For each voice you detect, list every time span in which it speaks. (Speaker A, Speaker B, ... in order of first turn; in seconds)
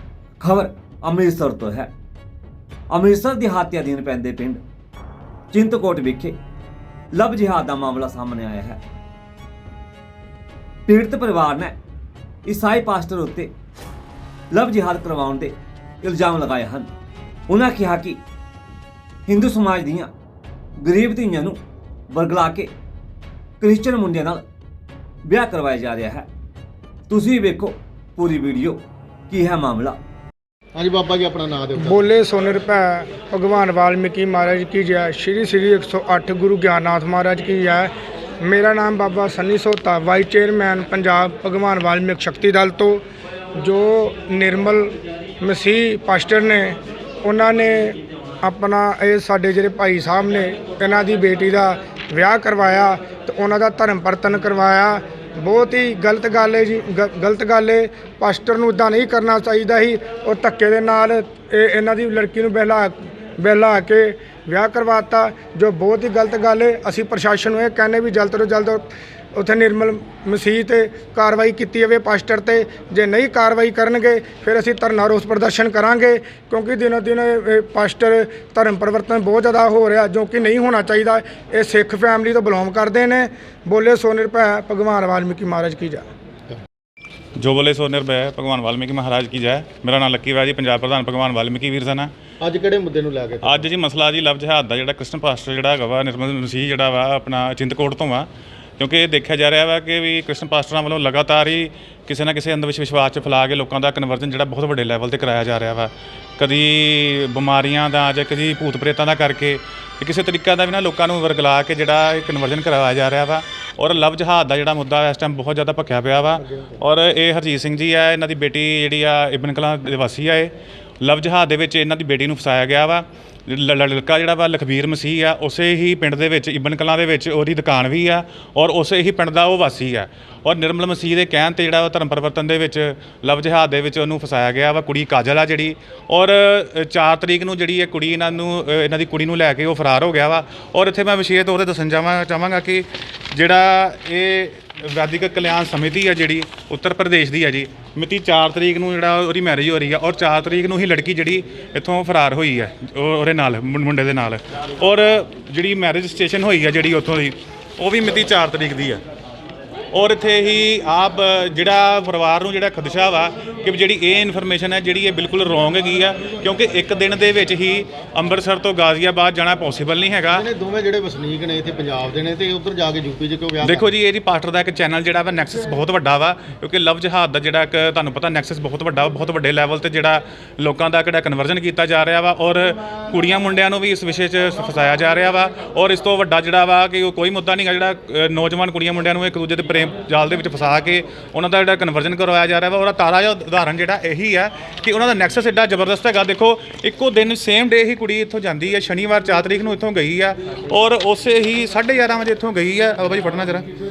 Speaker A: 0.4-1.9, 2.9-4.6, 5.5-6.4, 7.1-8.8, 10.9-11.8, 12.4-13.5, 14.5-16.9, 17.5-18.2, 19.3-20.1, 20.8-21.6, 22.1-22.7, 23.6-24.4, 25.2-26.3, 27.1-30.0
Speaker B: 30.8-32.1, 92.4-93.7, 116.4-116.8, 170.3-173.9
Speaker C: 31.8-37.9, 38.4-43.0, 43.6-86.0
Speaker D: 87.4-92.1, 93.4-98.3, 98.8-159.0, 159.9-170.4, 173.6-203.7